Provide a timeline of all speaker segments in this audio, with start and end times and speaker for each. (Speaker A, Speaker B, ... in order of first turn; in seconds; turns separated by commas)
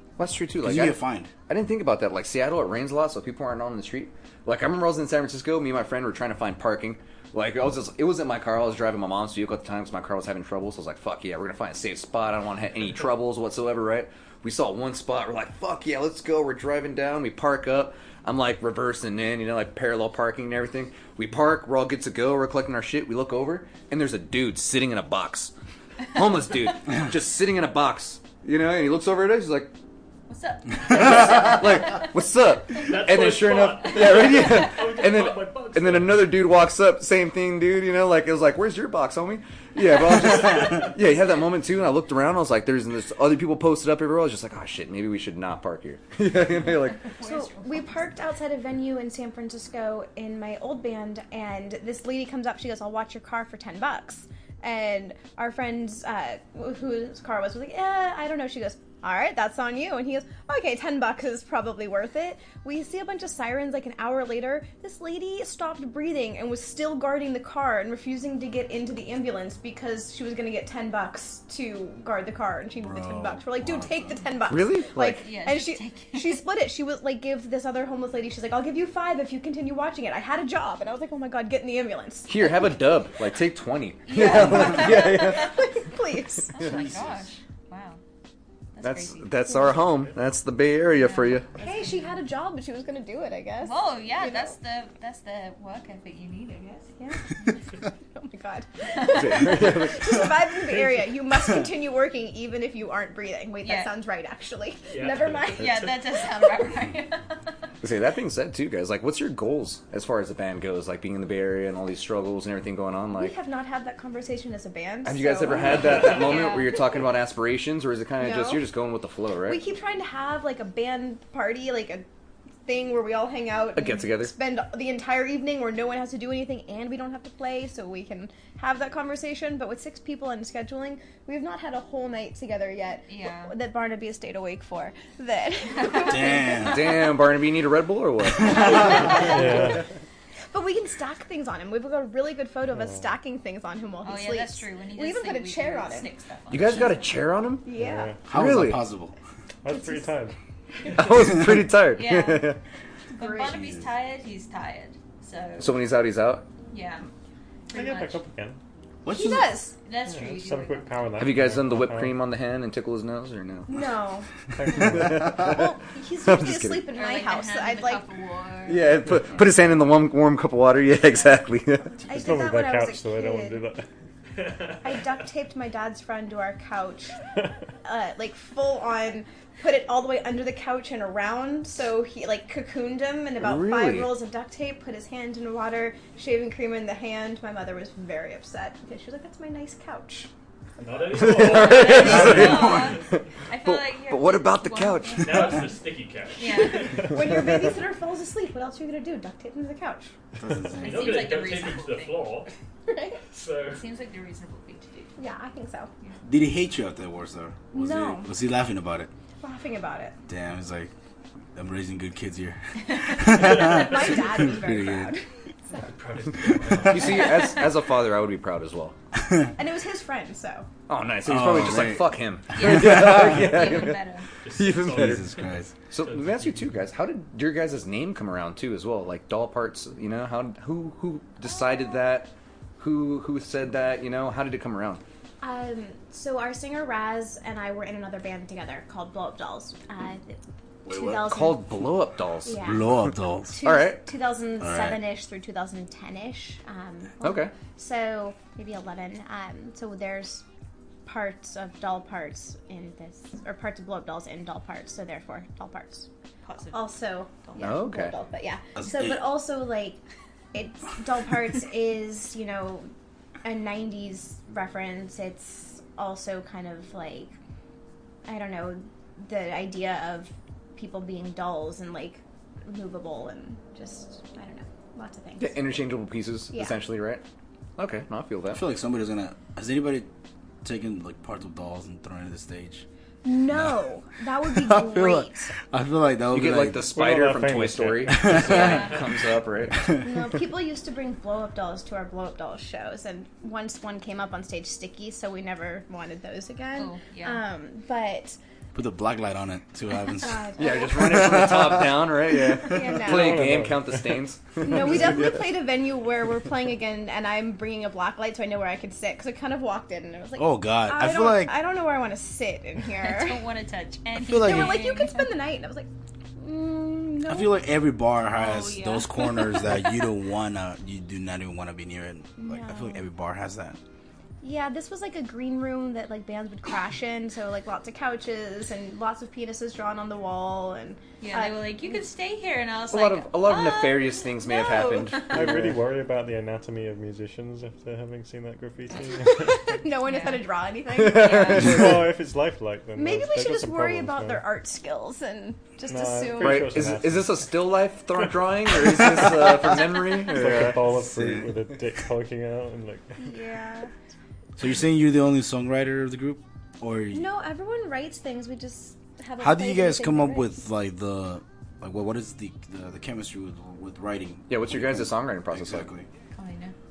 Speaker A: 0.2-25.5, Speaker B: 0.6-1.3, Speaker A: 26.1-29.7, Speaker C: 30.3-32.1, Speaker A: 30.9-47.1, Speaker D: 32.8-36.4, Speaker C: 46.9-48.1, Speaker E: 47.2-82.8, Speaker B: 72.8-74.2, Speaker A: 74.5-75.3, Speaker C: 75.2-76.4, Speaker A: 82.3-85.7, Speaker C: 84.1-85.6, Speaker E: 84.2-86.6, Speaker C: 86.5-88.0, Speaker B: 86.6-87.3, Speaker C: 88.7-89.8, Speaker A: 88.8-91.5, Speaker C: 91.0-92.1, Speaker E: 91.6-94.5, Speaker C: 93.6-96.9, Speaker E: 97.0-105.9, Speaker C: 98.9-99.5, Speaker A: 99.1-100.3, Speaker C: 103.6-103.9, Speaker D: 104.9-105.8, Speaker C: 105.4-107.4, Speaker A: 107.8-113.4, Speaker E: 113.2-116.4, Speaker A: 115.0-119.6, Speaker C: 116.0-116.9, Speaker E: 118.2-118.6, Speaker E: 119.5-122.0, Speaker E: 122.7-137.1, Speaker A: 123.8-124.3, Speaker C: 133.1-133.5, Speaker B: 135.9-136.9, Speaker A: 136.6-139.4, Speaker E: 138.4-139.8, Speaker F: 139.2-139.8, Speaker E: 140.5-146.1, Speaker F: 142.8-143.0, Speaker C: 144.0-147.0, Speaker A: 146.5-147.7, Speaker E: 147.6-148.2, Speaker F: 147.7-148.2, Speaker B: 148.2-149.1, Speaker A: 148.3-148.8, Speaker F: 149.6-150.4, Speaker E: 149.7-150.1, Speaker A: 150.9-152.6, Speaker C: 151.9-152.6, Speaker E: 153.1-153.6, Speaker C: 153.1-155.8, Speaker B: 153.5-153.9, Speaker A: 155.6-156.5, Speaker C: 156.7-157.1, Speaker C: 157.7-158.2, Speaker F: 157.7-158.6, Speaker B: 159.0-159.6, Speaker E: 159.1-159.8, Speaker C: 159.8-161.1, Speaker F: 160.1-162.2, Speaker A: 161.2-163.7, Speaker E: 163.7-168.0, Speaker F: 164.6-165.3, Speaker A: 164.8-165.6, Speaker A: 166.2-166.9, Speaker C: 166.9-168.9, Speaker A: 168.7-172.0, Speaker E: 172.1-173.6, Speaker F: 172.1-173.9, Speaker D: 174.4-174.8, Speaker E: 174.8-177.1, Speaker E: 177.8-190.3, Speaker A: 183.4-184.1, Speaker D: 190.8-193.0, Speaker A: 191.2-195.6, Speaker C: 191.4-195.5, Speaker D: 195.2-197.1, Speaker C: 196.4-197.0, Speaker E: 197.1-200.1, Speaker B: 200.4-201.3, Speaker C: 200.8-202.3, Speaker D: 200.8-202.5, Speaker E: 202.9-203.2, Speaker D: 203.3-203.8, Speaker C: 203.7-205.2, Speaker E: 205.2-205.9, Speaker B: 206.2-209.1, Speaker E: 207.7-208.3, Speaker E: 209.4-210.2, Speaker B: 210.3-210.9, Speaker B: 211.6-215.2, Speaker E: 213.2-215.2, Speaker D: 215.7-217.5, Speaker B: 216.7-217.1, Speaker A: 216.9-219.0, Speaker E: 219.6-220.7, Speaker A: 220.9-224.0, Speaker B: 221.2-223.6, Speaker C: 222.5-224.3, Speaker D: 224.4-226.8, Speaker A: 224.6-225.4, Speaker B: 224.8-225.7, Speaker A: 225.9-235.0, Speaker E: 235.4-241.7, Speaker B: 240.9-241.3, Speaker A: 241.1-242.7, Speaker E: 242.4-250.4, Speaker B: 242.5-243.6, Speaker A: 243.6-244.0, Speaker B: 244.6-245.0, Speaker A: 247.2-247.6, Speaker E: 251.1-256.1, Speaker C: 256.4-257.7, Speaker E: 256.7-260.0, Speaker A: 257.6-258.2, Speaker B: 258.8-259.3, Speaker E: 260.5-262.9, Speaker E: 263.4-267.4, Speaker E: 268.3-275.6, Speaker A: 275.4-277.2, Speaker E: 276.5-276.8, Speaker A: 277.8-278.6, Speaker B: 278.5-280.1, Speaker B: 280.6-282.9, Speaker E: 283.2-285.5, Speaker B: 283.5-283.9, Speaker B: 284.4-286.9, Speaker A: 286.3-289.9, Speaker F: 286.9-288.5, Speaker B: 288.1-288.9, Speaker C: 288.4-289.0, Speaker B: 289.7-290.1, Speaker E: 290.0-298.4, Speaker C: 296.8-297.4, Speaker B: 298.8-302.8, Speaker E: 300.2-301.6, Speaker A: 300.6-305.5, Speaker E: 302.6-303.6, Speaker F: 303.1-304.2, Speaker E: 304.6-313.4, Speaker B: 310.4-311.5, Speaker C: 312.9-315.4, Speaker B: 314.2-314.9, Speaker E: 314.3-317.7, Speaker B: 317.3-323.8, Speaker E: 318.4-320.1, Speaker E: 322.4-323.0, Speaker E: 324.4-332.0, Speaker C: 331.2-335.1, Speaker A: 332.9-335.8, Speaker E: 334.4-335.3, Speaker F: 335.3-339.8, Speaker E: 339.1-341.8, Speaker C: 340.1-340.5, Speaker C: 341.0-341.8, Speaker A: 341.0-341.7, Speaker F: 341.3-344.5, Speaker E: 342.9-346.8, Speaker F: 345.9-347.5, Speaker A: 346.4-350.9, Speaker F: 350.2-353.3, Speaker B: 351.0-351.6, Speaker E: 353.2-353.9, Speaker B: 354.6-357.3, Speaker E: 357.1-360.6, Speaker B: 359.4-366.1, Speaker A: 364.5-365.9, Speaker C: 366.4-366.8